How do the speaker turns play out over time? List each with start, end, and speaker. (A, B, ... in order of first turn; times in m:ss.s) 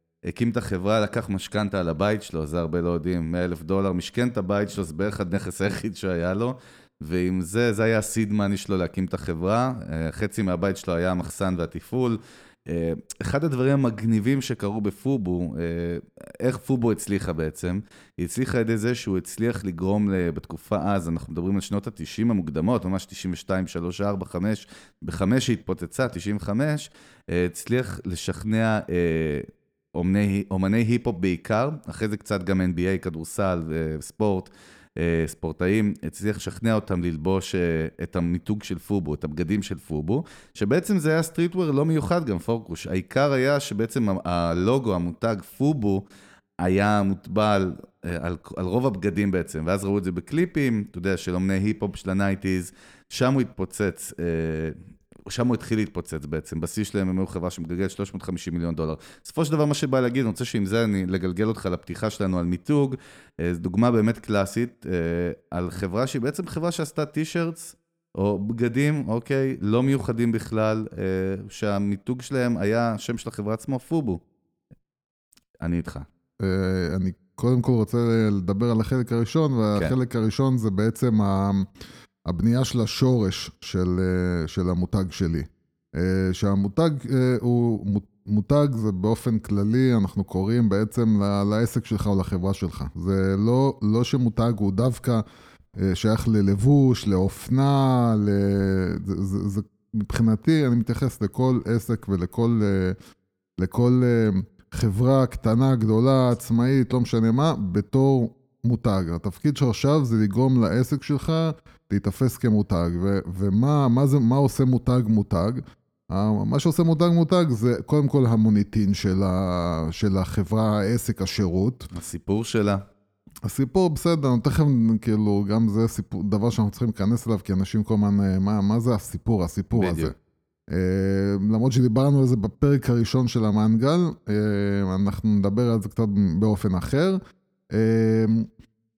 0:00.3-0:46.0 A
0:46.6-0:54.8 A
0:55.3-1:14.2 A
1:15.6-1:16.1 A
1:16.4-1:21.6 B
1:22.3-1:35.2 B
1:35.8-1:43.0 B
1:43.6-2:01.9 B
2:01.9-2:02.8 A
2:03.4-2:10.1 B
2:09.7-2:10.1 A
2:10.7-2:17.2 B
2:17.7-2:18.5 B